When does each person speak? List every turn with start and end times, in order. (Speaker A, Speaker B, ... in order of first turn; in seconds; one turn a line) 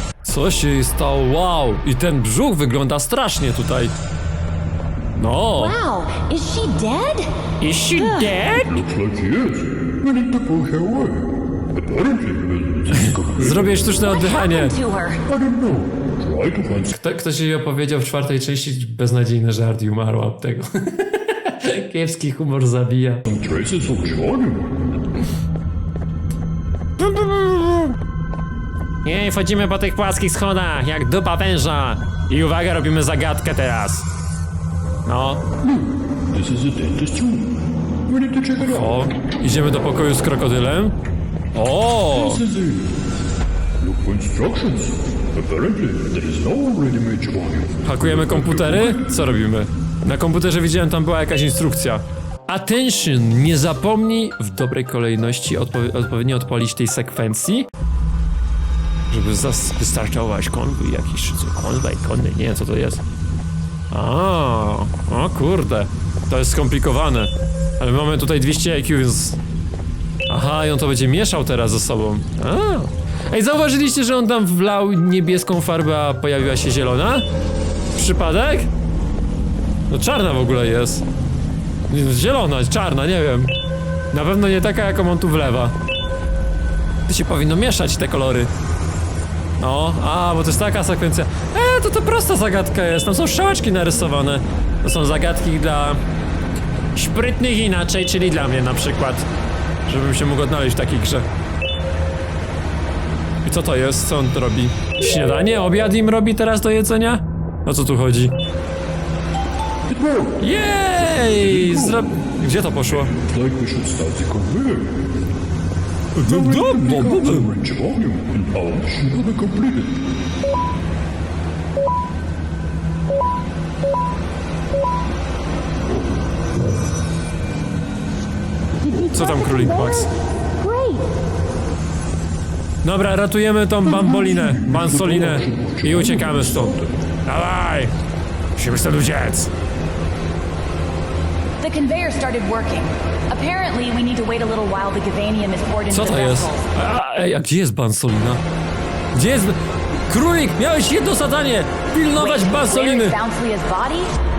Speaker A: 0.2-3.9
Speaker A: 5.2-5.8
Speaker B: 5.6-7.3
Speaker A: 7.6-8.7
Speaker B: 8.0-8.3
Speaker C: 8.6-13.8
Speaker A: 13.0-14.7
Speaker B: 14.0-15.2
Speaker C: 15.3-16.9
Speaker A: 16.9-23.2
Speaker C: 23.2-24.8
Speaker A: 27.0-28.0
Speaker A: 29.1-34.1
Speaker A: 35.1-35.4
Speaker C: 35.6-39.1
Speaker A: 38.6-41.0
Speaker A: 41.5-42.4
Speaker C: 42.1-43.0
Speaker C: 43.8-49.2
Speaker A: 47.9-57.7
Speaker A: 59.1-63.0
Speaker A: 63.9-69.4
Speaker A: 70.3-77.2
Speaker A: 78.0-78.7
Speaker A: 79.9-81.0
Speaker A: 81.9-83.5
Speaker A: 84.1-85.8
Speaker A: 87.1-88.5
Speaker A: 89.6-96.0
Speaker A: 97.0-99.3
Speaker A: 99.9-101.3
Speaker A: 103.5-108.3
Speaker C: 109.9-110.5
Speaker A: 110.4-113.1
Speaker C: 111.1-112.0
Speaker C: 112.9-115.1
Speaker A: 116.2-117.5
Speaker C: 116.2-120.0
Speaker C: 125.9-126.2
Speaker B: 128.8-130.1
Speaker A: 129.1-130.1
Speaker B: 130.6-131.0
Speaker A: 132.8-137.9
Speaker C: 133.8-137.0
Speaker A: 138.6-139.5
Speaker B: 141.6-146.7
Speaker A: 145.9-148.4
Speaker A: 149.1-153.2
Speaker B: 152.2-154.1